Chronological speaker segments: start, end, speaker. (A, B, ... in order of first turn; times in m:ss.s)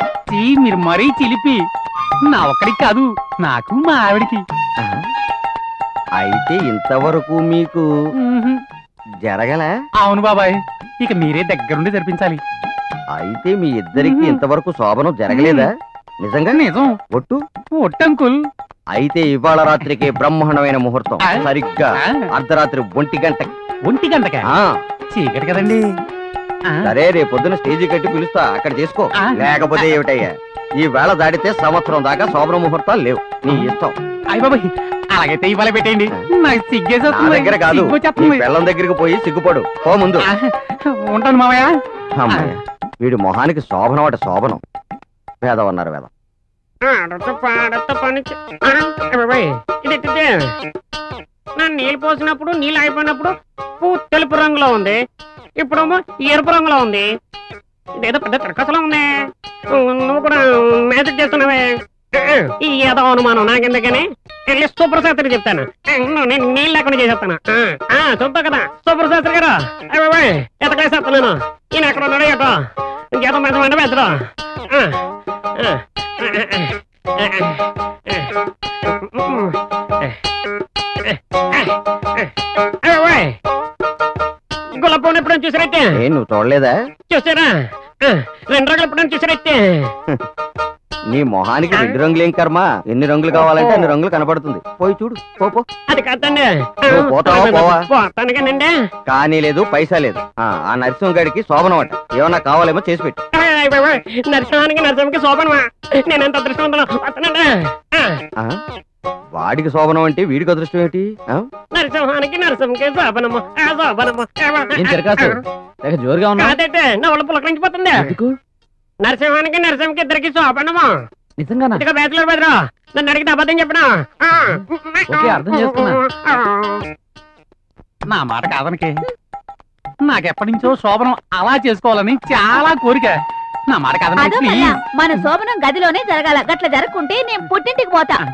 0:00.3-0:01.6 A
0:02.2-0:04.4 A
0:06.2-0:07.8 B
0:08.2-0:08.6 A
0:09.2-0:09.7 B
0:10.0-0:12.4 A
0:13.1-0:15.7 B
0:14.0-0:14.4 A
0:15.3-0:15.7 A
0:16.2-0:17.4 B
0:16.5-0:16.9 A
0:17.8-0:18.4 A
0:18.9-0:23.5 B
0:19.9-0:20.1 A
0:23.9-0:24.5 A
0:25.1-0:25.8 A
0:26.8-0:34.0 B
0:29.2-0:30.0 A
0:34.3-0:38.4 A
0:37.1-0:40.2 B
0:40.3-0:41.7 A
0:42.2-0:44.6 B
0:45.4-0:46.1 B
0:46.9-0:50.3 C
0:51.6-0:55.0 C
0:55.6-0:57.1 C
0:58.0-0:59.1 C
0:59.7-1:12.6 C
1:13.1-1:14.9 C
1:15.6-1:18.3 C
1:19.1-1:20.1 C
1:21.1-1:22.3 C
1:22.8-1:23.3 C
1:24.8-1:25.8 C
1:26.0-1:26.7 B
1:27.1-1:27.5 C
1:28.0-1:29.9 C
1:31.1-1:35.6 B
1:31.7-1:32.0 C
1:35.9-1:38.7 C
1:36.9-1:37.8 B
1:39.1-1:43.2 B
1:43.3-1:48.2 C
1:49.3-1:51.4 B
1:51.7-1:55.4 C
1:54.8-1:56.6 D
1:56.4-1:58.1 C
1:58.0-1:58.3 D
1:59.0-2:00.9 C
2:01.4-2:01.8 D
2:01.8-2:06.8 C
2:05.1-2:06.0 D
2:08.1-2:08.9 A
2:10.0-2:13.1 A
2:13.7-2:15.2 A
2:14.2-2:18.2 E